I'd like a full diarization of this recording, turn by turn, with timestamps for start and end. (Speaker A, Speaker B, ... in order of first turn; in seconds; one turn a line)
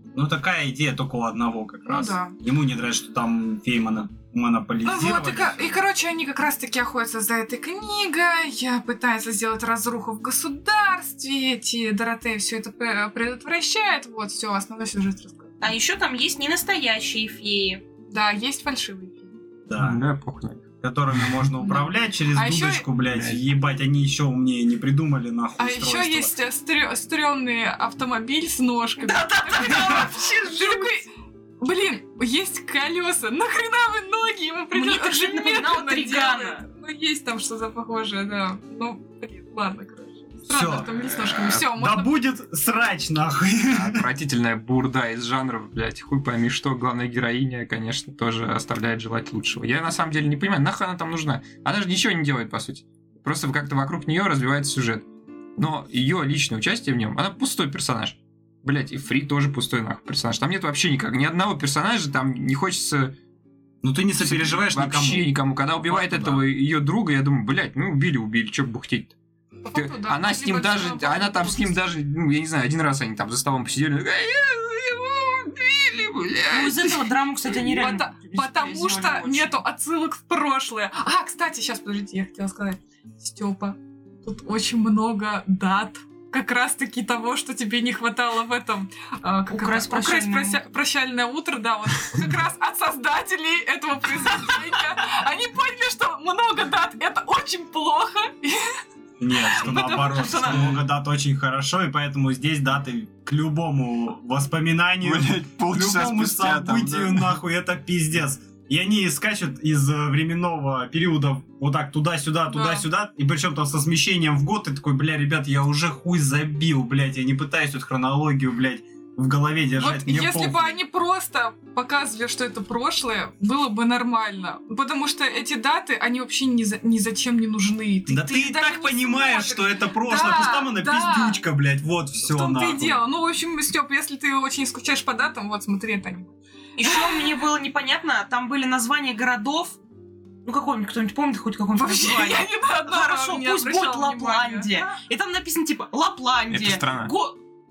Speaker A: 0.1-5.8
Speaker B: 1.9-2.4
Speaker B: 4.8-15.5
Speaker C: 15.6-17.8
Speaker B: 18.1-19.4
Speaker A: 19.7-20.0
Speaker D: 19.8-20.6
Speaker A: 20.8-26.4
Speaker B: 21.6-22.9
Speaker D: 23.1-23.4
Speaker B: 25.6-31.1
Speaker C: 29.0-31.0
Speaker B: 31.6-42.1
Speaker C: 34.7-36.7
Speaker A: 40.5-40.9
Speaker D: 40.9-41.6
Speaker A: 41.6-44.1
Speaker D: 43.7-55.1
Speaker D: 55.6-63.1
Speaker A: 63.8-66.5
Speaker D: 64.2-69.2
Speaker B: 69.7-71.8
Speaker D: 69.7-77.1
Speaker C: 76.5-79.6
Speaker B: 77.6-98.7
Speaker C: 89.5-90.6
Speaker A: 99.2-120.8
Speaker B: 99.4-100.8
Speaker C: 100.2-100.5
Speaker D: 105.0-107.3
Speaker B: 112.5-112.9
Speaker B: 119.8-131.4
Speaker A: 128.1-133.0
Speaker B: 132.2-137.3
Speaker C: 136.8-139.8
Speaker C: 140.4-147.4
Speaker B: 141.8-145.0
Speaker D: 146.5-147.1